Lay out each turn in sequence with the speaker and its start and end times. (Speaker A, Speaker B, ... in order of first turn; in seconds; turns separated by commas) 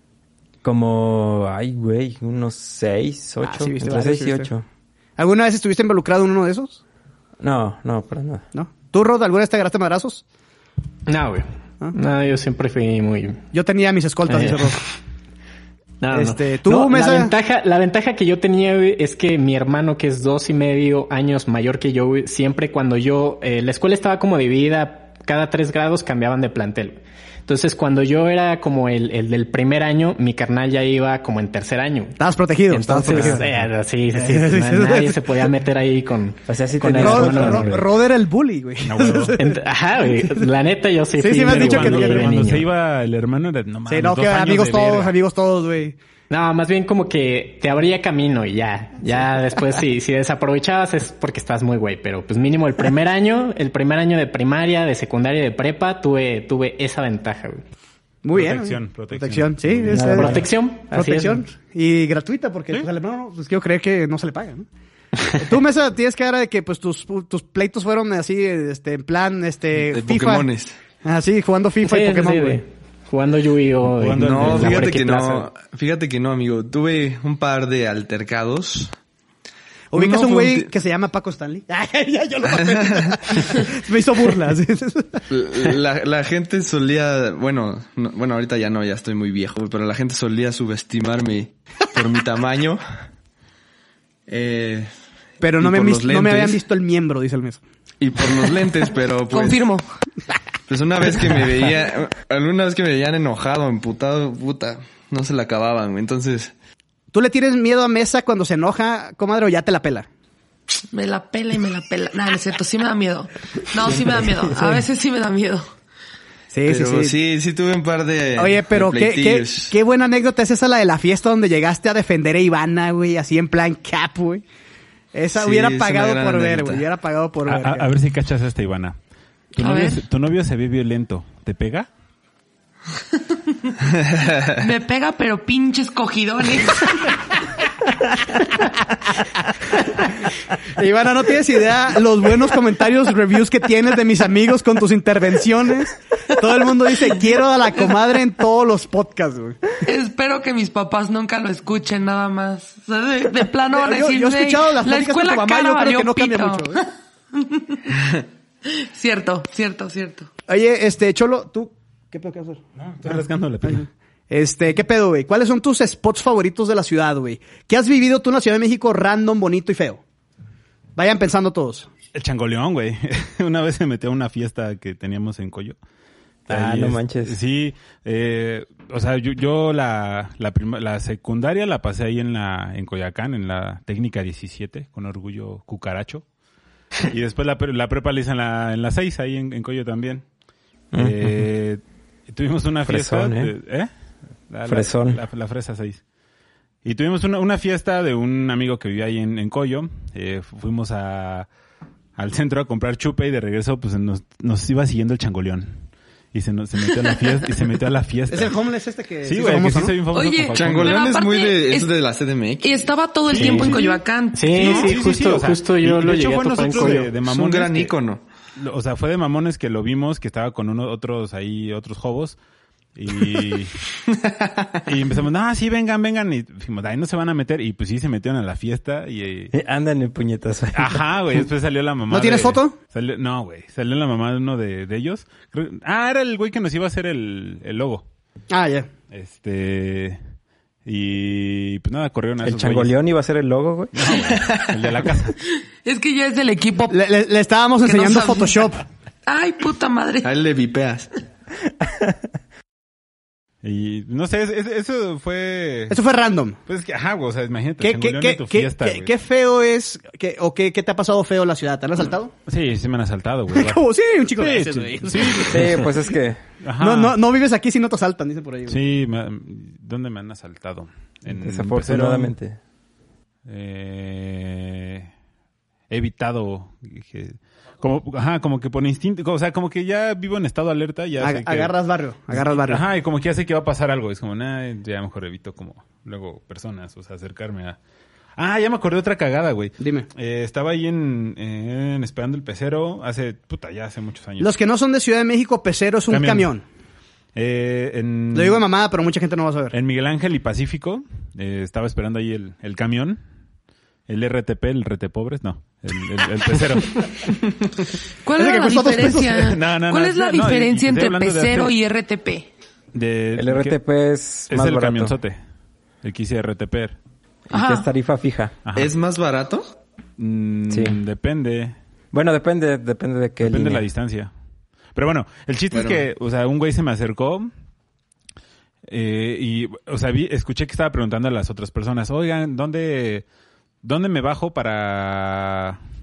Speaker A: 0.6-4.7, Speaker B: 3.4-4.5, Speaker B: 5.2-6.8, Speaker A: 7.4-8.4, Speaker B: 8.5-10.2, Speaker C: 11.1-13.4, Speaker B: 13.5-14.8, Speaker C: 14.3-14.8, Speaker C: 16.0-32.2, Speaker B: 16.1-17.3, Speaker B: 32.2-33.4, Speaker C: 32.7-37.8, Speaker D: 33.1-33.6, Speaker B: 34.1-35.4, Speaker A: 36.5-37.9, Speaker B: 36.9-39.6, Speaker D: 38.8-39.4, Speaker C: 39.4-42.7, Speaker B: 41.2-42.4, Speaker D: 41.4-45.1, Speaker B: 43.9-46.0, Speaker C: 46.3-57.6, Speaker B: 58.2-64.7, Speaker D: 58.3-60.3, Speaker A: 59.9-60.5, Speaker C: 60.0-61.4, Speaker B: 65.4-70.5, Speaker E: 69.8-70.8, Speaker B: 71.0-72.6, Speaker C: 71.8-75.5, Speaker D: 73.9-75.0, Speaker E: 74.2-78.9, Speaker B: 79.9-85.2, Speaker E: 79.9-80.7, Speaker E: 85.3-92.8, Speaker E: 94.3-94.9, Speaker B: 95.4-97.6, Speaker E: 95.6-96.6, Speaker E: 98.0-99.7, Speaker F: 99.3-99.8, Speaker E: 100.7-106.5, Speaker B: 107.1-110.1, Speaker F: 110.9-115.7, Speaker B: 116.5-117.2, Speaker E: 116.7-119.8, Speaker B: 118.4-124.4, Speaker B: 125.1-127.9, Speaker E: 125.3-126.8, Speaker D: 127.5-129.0, Speaker D: 129.5-131.9, Speaker F: 129.6-130.0, Speaker E: 134.0-134.5, Speaker F: 134.6-137.2, Speaker B: 140.7-149.6, Speaker F: 149.8-157.9, Speaker B: 153.8-156.8, Speaker F: 158.7-160.3, Speaker B: 160.5-170.0, Speaker D: 162.9-163.9, Speaker B: 171.0-171.9, Speaker D: 172.1-175.8, Speaker A: 176.5-177.4, Speaker D: 176.5-186.2, Speaker D: 187.0-190.2, Speaker A: 190.9-191.4, Speaker D: 190.9-193.9, Speaker A: 192.9-193.5, Speaker D: 194.5-196.0, Speaker A: 194.7-195.2, Speaker D: 196.8-201.5, Speaker D: 202.2-208.6, Speaker B: 208.3-210.0, Speaker D: 209.2-211.1, Speaker F: 210.1-211.9, Speaker E: 210.6-212.9, Speaker F: 212.6-214.9, Speaker D: 213.3-217.9, Speaker C: 213.3-217.1, Speaker E: 217.2-218.2, Speaker D: 218.6-222.4, Speaker D: 222.9-223.7, Speaker D: 224.9-229.5, Speaker A: 229.5-231.0, Speaker D: 230.7-238.1, Speaker B: 232.1-232.8, Speaker B: 238.5-238.9, Speaker D: 239.1-240.2, Speaker D: 240.8-242.9, Speaker A: 242.4-244.1, Speaker D: 243.9-245.4, Speaker E: 244.5-244.8, Speaker F: 245.8-247.0, Speaker B: 246.9-248.8, Speaker F: 247.8-248.7, Speaker F: 249.3-250.3, Speaker E: 250.2-251.1, Speaker A: 251.8-252.2, Speaker D: 253.6-256.0, Speaker B: 255.9-256.6, Speaker D: 256.7-259.1, Speaker B: 257.8-262.3, Speaker D: 262.5-263.8, Speaker B: 263.5-265.8, Speaker D: 264.4-265.9, Speaker A: 265.5-266.4, Speaker D: 266.6-267.2, Speaker B: 266.8-268.8, Speaker D: 268.7-272.3, Speaker A: 271.3-272.6, Speaker D: 273.5-275.1, Speaker D: 275.9-281.7, Speaker B: 281.2-282.9, Speaker D: 282.3-287.8, Speaker D: 288.4-294.5, Speaker B: 289.8-290.1, Speaker B: 294.4-296.6, Speaker D: 296.1-296.5, Speaker D: 297.4-298.6, Speaker B: 298.3-299.8, Speaker D: 299.7-303.2, Speaker D: 304.1-307.4, Speaker F: 308.2-312.5, Speaker B: 308.4-309.5, Speaker D: 309.4-311.7, Speaker D: 312.9-313.8, Speaker A: 313.4-315.1, Speaker D: 314.5-315.4, Speaker D: 316.0-317.0, Speaker F: 317.5-317.9, Speaker A: 317.5-318.6, Speaker D: 318.6-318.9, Speaker E: 318.8-319.6, Speaker D: 320.2-321.7, Speaker A: 320.7-321.0, Speaker A: 322.1-323.9, Speaker D: 323.4-324.3, Speaker D: 324.9-327.5, Speaker E: 325.7-326.1, Speaker D: 328.9-333.2, Speaker D: 333.8-335.8